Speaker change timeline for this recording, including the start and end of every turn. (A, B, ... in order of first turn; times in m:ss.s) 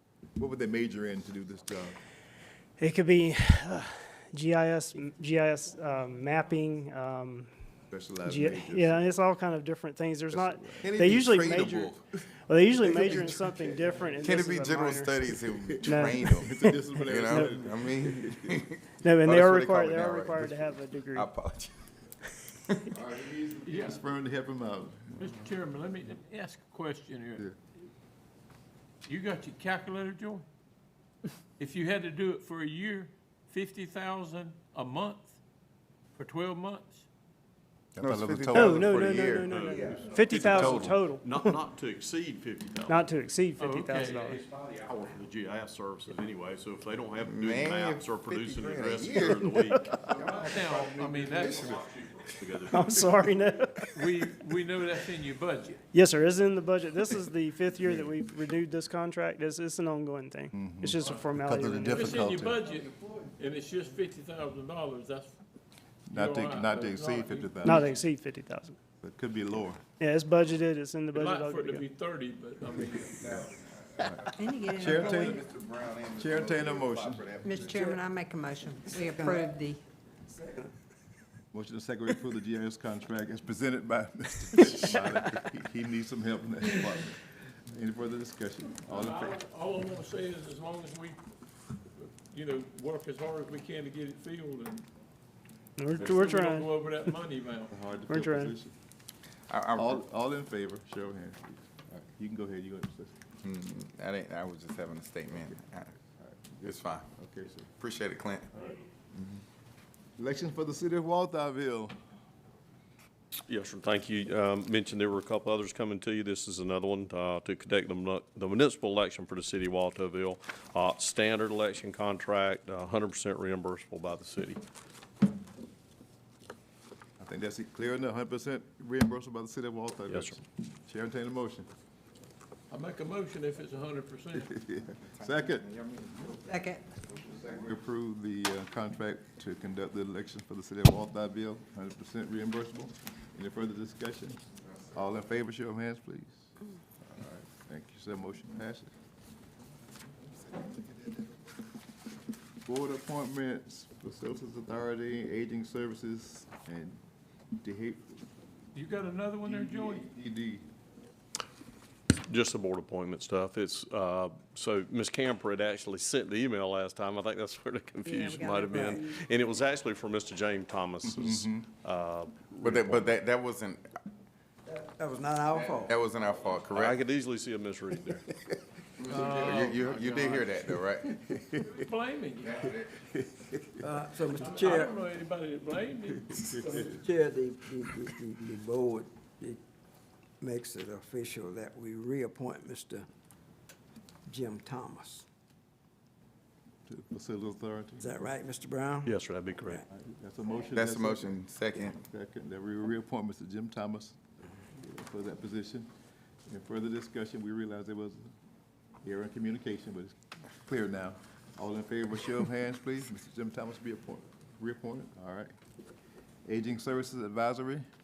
0:00.4-0:02.0 A
0:02.8-0:07.5 B
0:07.9-0:09.2 A
0:08.2-0:11.9 B
0:10.3-0:11.2 A
0:10.9-0:12.0 C
0:12.5-0:17.7 B
0:12.8-0:13.8 A
0:14.2-0:21.7 C
0:15.7-0:18.6 A
0:19.0-0:21.3 B
0:22.9-0:25.5 A
0:23.7-0:24.0 D
0:25.2-0:27.5 D
0:29.0-0:30.4 D
0:31.6-0:35.4 D
0:36.2-0:37.0 D
0:38.0-0:40.9 C
0:38.0-0:39.4 A
0:38.5-0:41.6 B
0:39.4-0:43.0 E
0:42.9-0:44.4 B
0:43.6-0:44.4 D
0:44.3-0:50.5 E
0:47.2-0:51.9 C
0:50.2-0:51.8 D
0:51.2-0:53.1 E
0:52.7-0:53.9 B
0:54.0-0:55.8 D
0:55.9-1:02.3 B
0:57.8-0:58.1 A
1:00.5-1:02.6 A
1:01.0-1:01.2 D
1:01.9-1:05.4 D
1:06.1-1:07.9 A
1:06.1-1:07.9 D
1:07.6-1:08.8 B
1:09.0-1:09.8 A
1:10.0-1:11.8 B
1:11.1-1:13.3 D
1:12.8-1:17.8 C
1:14.0-1:15.5 A
1:14.4-1:15.4 F
1:16.2-1:17.3 A
1:17.4-1:19.8 F
1:17.7-1:18.1 G
1:19.1-1:19.4 G
1:20.3-1:20.7 G
1:21.5-1:29.4 A
1:28.9-1:31.2 D
1:32.0-1:34.9 D
1:35.8-1:37.1 B
1:35.9-1:37.7 D
1:37.7-1:38.7 A
1:38.1-1:38.5 B
1:39.5-1:40.0 C
1:39.8-1:43.1 A
1:43.4-1:46.0 C
1:46.2-1:47.7 A
1:46.6-1:47.0 C
1:47.8-1:48.7 C
1:50.2-1:51.9 A
1:53.5-2:04.6 E
2:07.2-2:11.7 A
2:10.1-2:10.4 E
2:12.7-2:14.5 D
2:14.3-2:15.7 A
2:15.1-2:17.6 C
2:16.5-2:17.0 F
2:17.4-2:24.4 A
2:24.9-2:28.9 A
2:32.6-2:37.0 A
2:37.6-2:38.2 A
2:38.8-2:40.1 D
2:39.4-2:40.7 A
2:42.2-2:53.1 E
2:48.0-2:49.1 F
2:51.1-2:51.7 A
2:52.6-2:54.0 C
2:54.7-2:56.0 G
2:55.5-2:57.0 C
2:56.7-2:58.3 E
2:59.0-3:01.3 C
2:59.1-3:00.4 D
2:59.2-3:00.3 G
3:01.3-3:01.8 A
3:01.7-3:02.6 D
3:02.4-3:03.0 C
3:03.1-3:03.5 A
3:03.8-3:05.0 G
3:04.3-3:07.0 D
3:07.0-3:09.6 G
3:10.4-3:13.1 G
3:14.3-3:15.2 G
3:16.9-3:18.2 A
3:18.0-3:19.2 G
3:19.0-3:19.8 E
3:19.9-3:24.2 A
3:20.7-3:22.0 C
3:24.8-3:25.9 A
3:26.5-3:28.3 A
3:29.0-3:35.5 A
3:36.5-3:37.9 A